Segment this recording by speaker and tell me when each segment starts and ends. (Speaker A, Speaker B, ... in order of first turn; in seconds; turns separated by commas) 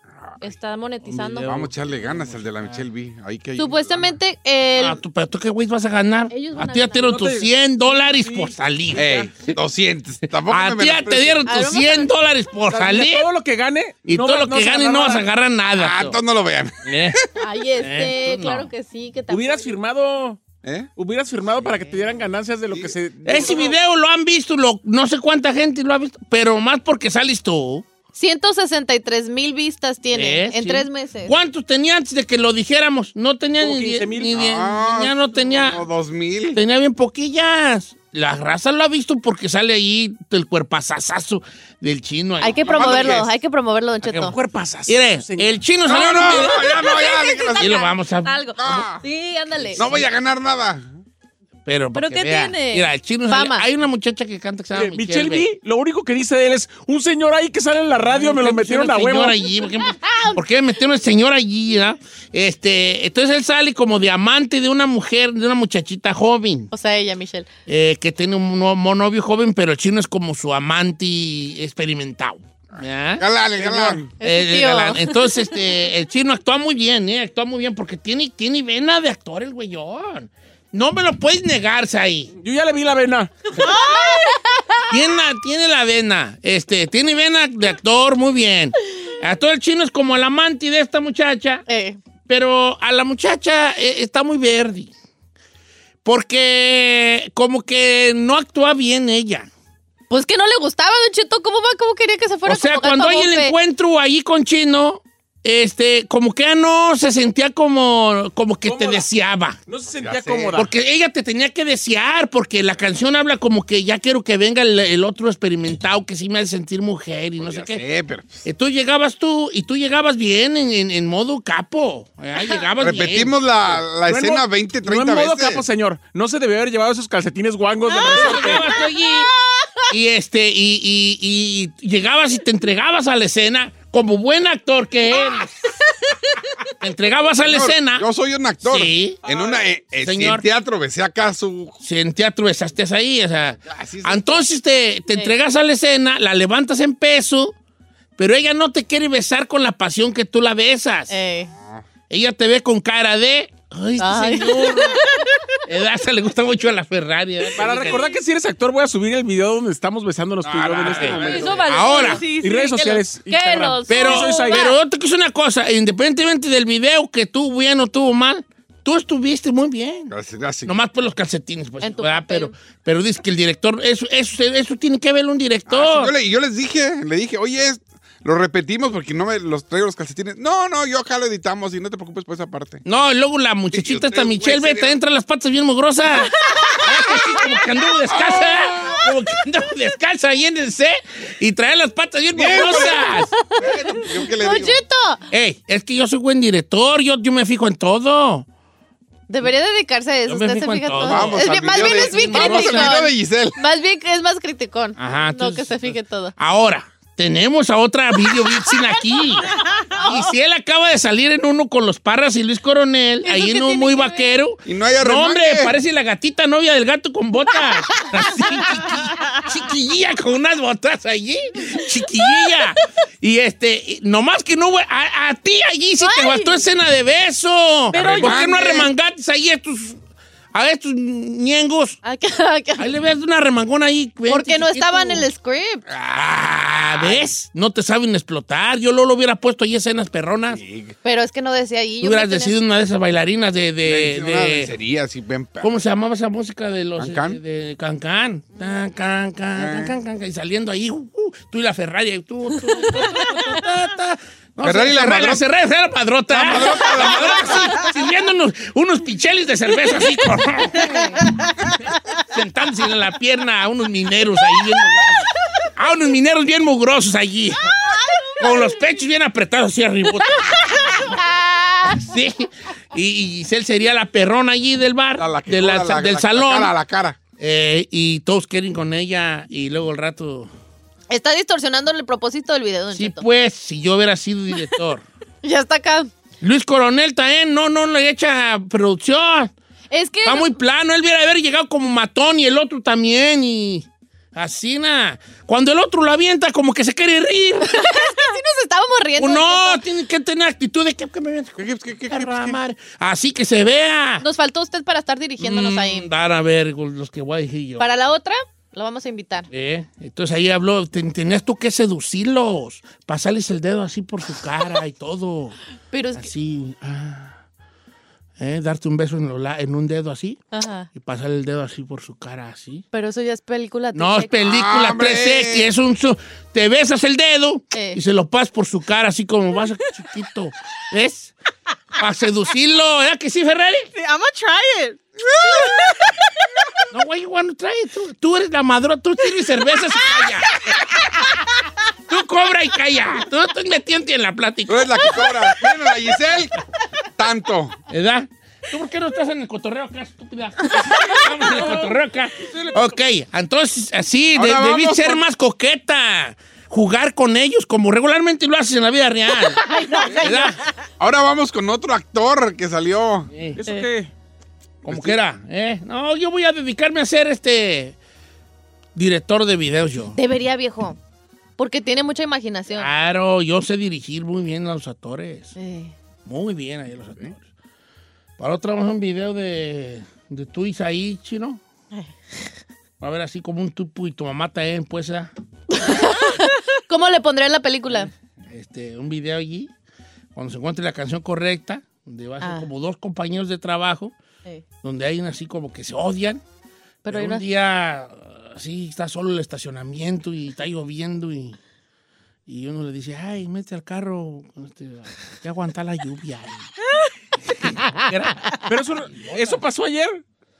Speaker A: 0.4-1.5, Speaker B: 1.1-2.8, Speaker C: 1.4-4.1, Speaker A: 3.6-5.0, Speaker B: 4.8-9.6, Speaker A: 6.3-7.3, Speaker D: 7.0-9.3, Speaker C: 8.9-11.4, Speaker B: 10.4-13.3, Speaker A: 11.4-12.1, Speaker D: 12.7-15.3, Speaker B: 14.1-16.2, Speaker C: 15.8-17.1, Speaker B: 16.8-17.2, Speaker A: 17.4-19.7, Speaker B: 17.8-18.7, Speaker D: 19.3-20.4, Speaker C: 20.6-20.9, Speaker D: 20.9-23.7, Speaker C: 22.7-23.6, Speaker B: 23.2-27.9, Speaker A: 28.1-31.3, Speaker B: 30.1-35.8, Speaker D: 33.6-34.3, Speaker C: 34.3-36.6, Speaker B: 36.5-43.2, Speaker A: 42.4-44.3, Speaker C: 42.6-43.3, Speaker B: 44.0-44.3, Speaker D: 44.1-46.0, Speaker B: 44.9-46.6, Speaker C: 45.9-47.8, Speaker A: 46.0-49.9, Speaker B: 47.6-48.8, Speaker C: 48.6-49.0, Speaker C: 49.8-50.8, Speaker B: 51.6-55.5, Speaker A: 51.9-53.7, Speaker D: 54.7-59.4, Speaker B: 58.0-66.7, Speaker A: 59.8-60.4, Speaker A: 66.7-67.5, Speaker B: 67.7-82.3, Speaker C: 73.2-74.1, Speaker A: 74.2-75.3, Speaker D: 82.4-83.6, Speaker A: 83.6-84.8, Speaker B: 84.9-91.6, Speaker A: 91.7-92.0, Speaker B: 92.3-94.9, Speaker B: 96.0-99.5, Speaker A: 100.1-103.5, Speaker B: 102.5-109.6, Speaker D: 108.6-109.0, Speaker D: 109.7-110.7, Speaker C: 109.9-110.6, Speaker B: 110.5-117.8, Speaker C: 117.4-118.4, Speaker B: 118.4-123.3, Speaker C: 122.8-125.6, Speaker D: 124.0-128.7, Speaker A: 127.9-129.7, Speaker B: 128.0-129.3, Speaker B: 129.9-135.7, Speaker B: 136.8-138.1, Speaker C: 137.4-141.8, Speaker B: 138.6-139.2, Speaker D: 139.2-139.7, Speaker B: 140.0-140.4, Speaker B: 141.8-147.5, Speaker C: 143.7-144.4, Speaker B: 148.2-151.1, Speaker A: 151.1-151.5, Speaker B: 152.1-155.1, Speaker A: 154.0-155.5, Speaker B: 155.6-158.1, Speaker D: 157.6-161.7, Speaker C: 160.4-161.9, Speaker B: 160.9-162.2, Speaker E: 161.2-164.5, Speaker A: 161.7-164.8, Speaker D: 162.4-164.7, Speaker B: 163.9-170.1, Speaker C: 170.1-170.7, Speaker B: 170.6-176.1, Speaker A: 171.8-172.5, Speaker C: 175.7-182.8, Speaker B: 182.8-193.3, Speaker C: 183.7-184.9, Speaker A: 186.5-187.2, Speaker C: 188.1-189.1, Speaker C: 192.3-194.8, Speaker A: 192.6-195.2, Speaker B: 195.3-198.4, Speaker A: 199.3-206.3, Speaker B: 200.3-203.0, Speaker C: 201.0-203.6, Speaker B: 205.0-230.0, Speaker A: 209.4-210.3, Speaker A: 213.2-214.3, Speaker C: 214.7-215.7, Speaker A: 217.8-219.2, Speaker A: 226.0-226.6, Speaker C: 227.9-228.9, Speaker A: 228.0-228.4, Speaker B: 230.5-232.0, Speaker A: 232.0-232.9, Speaker B: 232.8-235.3, Speaker A: 234.3-235.8, Speaker C: 235.9-237.3, Speaker B: 236.1-240.6, Speaker C: 240.5-240.9, Speaker A: 241.0-242.6, Speaker B: 242.0-244.7, Speaker C: 243.8-245.7, Speaker B: 245.6-261.0, Speaker C: 247.0-247.4, Speaker C: 249.6-249.9, Speaker A: 252.9-253.3, Speaker C: 254.6-255.4, Speaker C: 256.3-257.8, Speaker A: 260.7-261.3, Speaker B: 262.3-267.8, Speaker A: 267.9-268.7, Speaker B: 268.4-271.1, Speaker A: 270.4-271.9, Speaker B: 271.8-276.7, Speaker C: 275.2-277.2, Speaker B: 277.4-280.5, Speaker A: 281.1-283.2, Speaker B: 282.9-285.0, Speaker A: 285.4-286.1, Speaker B: 286.4-289.5, Speaker A: 289.9-290.5, Speaker B: 290.2-298.1, Speaker A: 297.7-299.8, Speaker B: 299.2-304.2, Speaker C: 301.6-302.6, Speaker A: 304.2-306.1, Speaker B: 305.4-307.9, Speaker A: 307.8-309.5, Speaker B: 309.5-315.6, Speaker A: 315.9-316.3, Speaker B: 316.1-317.4, Speaker B: 318.4-320.4, Speaker A: 320.5-320.9, Speaker B: 320.9-322.8, Speaker A: 322.9-324.4, Speaker B: 323.9-331.3, Speaker C: 324.4-325.6, Speaker A: 327.7-328.0, Speaker B: 332.0-333.9, Speaker E: 333.9-335.8, Speaker B: 336.9-341.4, Speaker B: 342.1-345.6, Speaker C: 344.7-346.6, Speaker C: 347.2-347.8, Speaker B: 347.9-360.6, Speaker D: 351.5-352.9, Speaker C: 354.3-355.2, Speaker A: 359.6-360.6, Speaker C: 361.0-363.3, Speaker B: 363.3-363.6, Speaker D: 363.6-364.1, Speaker C: 364.8-365.2, Speaker B: 364.8-368.0, Speaker B: 368.9-370.2, Speaker A: 370.1-371.0, Speaker A: 371.6-372.9, Speaker B: 372.7-375.5, Speaker A: 375.6-375.9, Speaker B: 376.2-377.4, Speaker B: 378.4-381.6, Speaker B: 383.0-385.3, Speaker A: 385.7-388.1, Speaker B: 387.9-389.7, Speaker B: 390.3-394.1, Speaker A: 392.4-392.7, Speaker B: 394.8-396.4, Speaker A: 397.0-397.4, Speaker B: 397.1-401.6, Speaker B: 402.5-406.7, Speaker B: 407.5-409.6, Speaker D: 408.1-410.2